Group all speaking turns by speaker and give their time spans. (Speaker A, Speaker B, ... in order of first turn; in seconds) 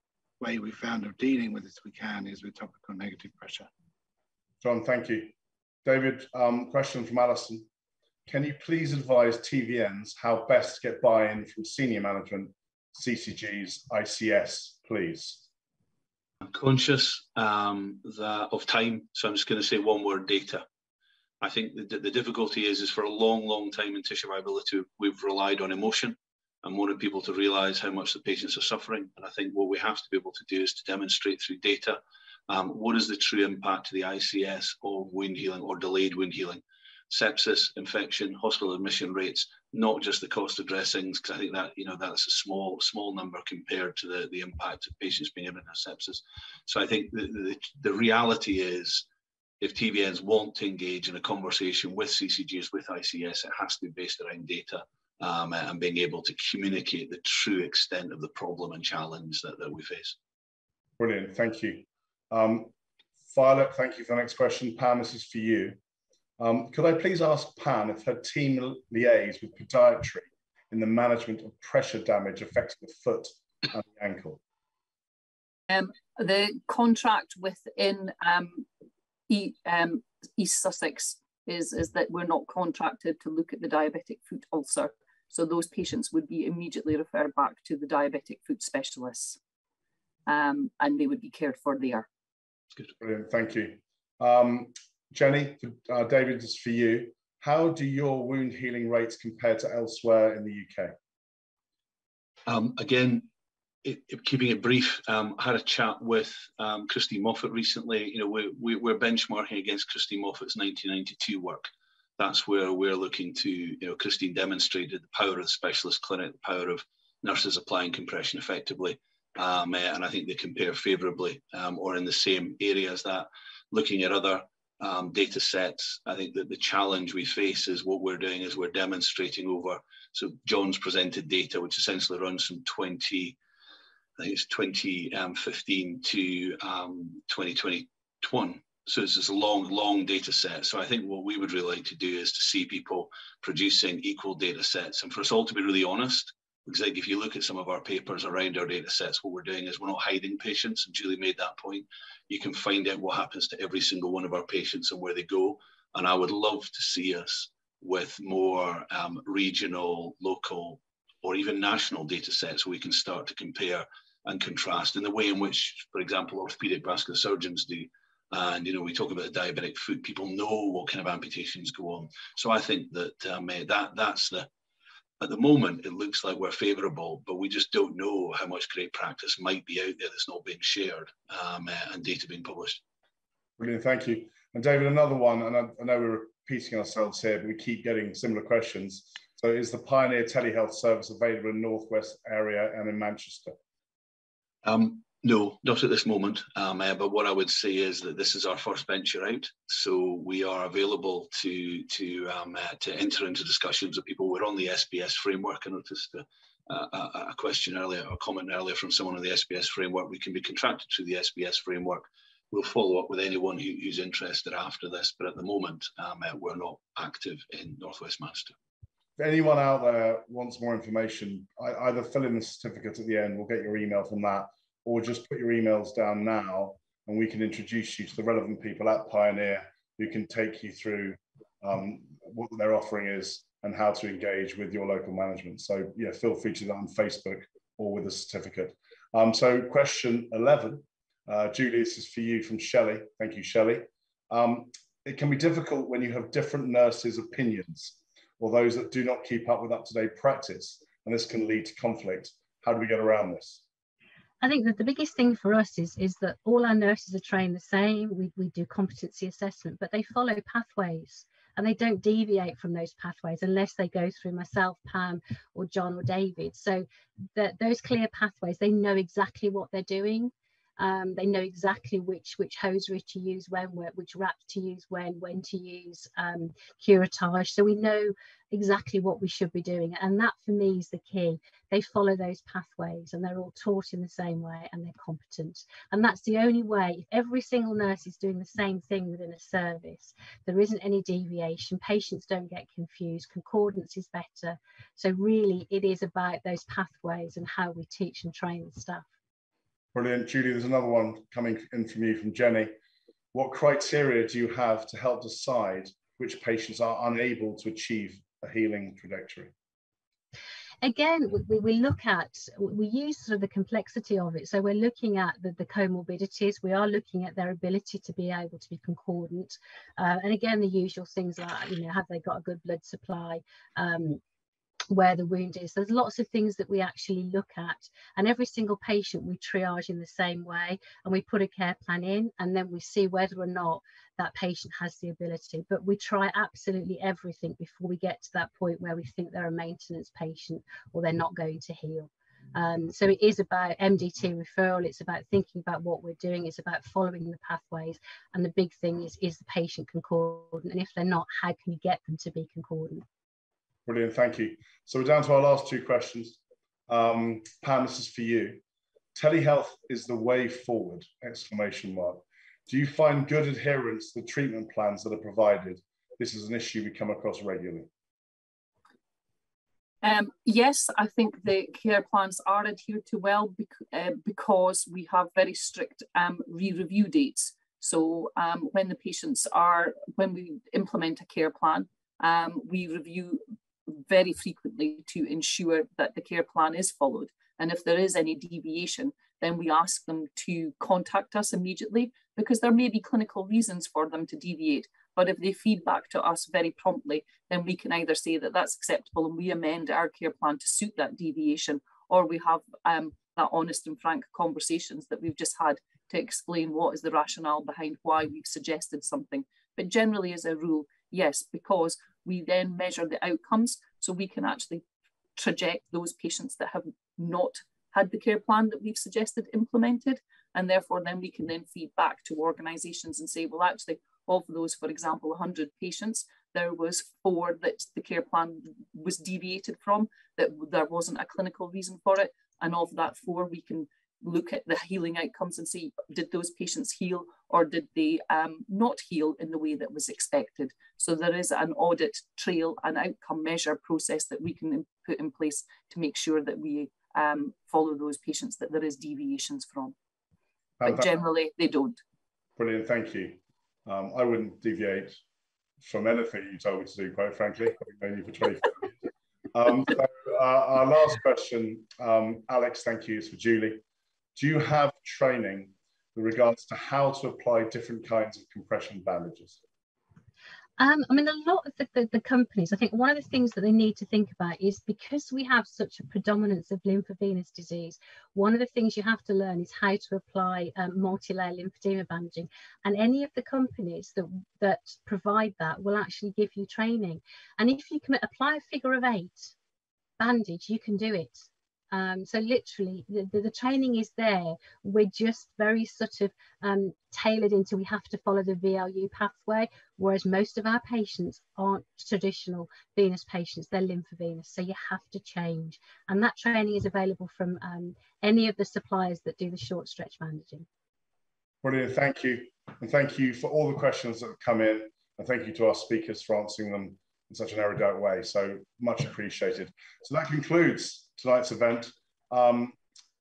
Speaker A: 0.4-3.7
Speaker B: 4.6-5.3, 5.8-7.7, 8.3-15.4, 61.0-62.7, 63.3-65.8, 66.4-74.4, 93.0-100.9, 183.6-193.6, 219.2-253.6, 299.9-302.7, 303.3-309.5, 353.9-358.6, 359.1-367.9, 450.8-451.1, 452.6-455.2, 455.8-458.9, 459.5-463.8, 464.4-469.6, 511.6-522.8
Speaker C: 16.4-20.6, 21.4-49.1, 49.6-60.2, 102.5-103.3, 103.8-133.4, 134.2-174.5, 175.2-182.8, 194.6-218.5
Speaker D: 75.7-78.7, 79.3-89.4, 90.3-92.1, 370.0-414.8, 415.4-449.9, 450.8-452.0
Speaker E: 254.4-299.1, 310.8-324.2, 324.9-353.1, 470.8-489.5, 490.2-510.7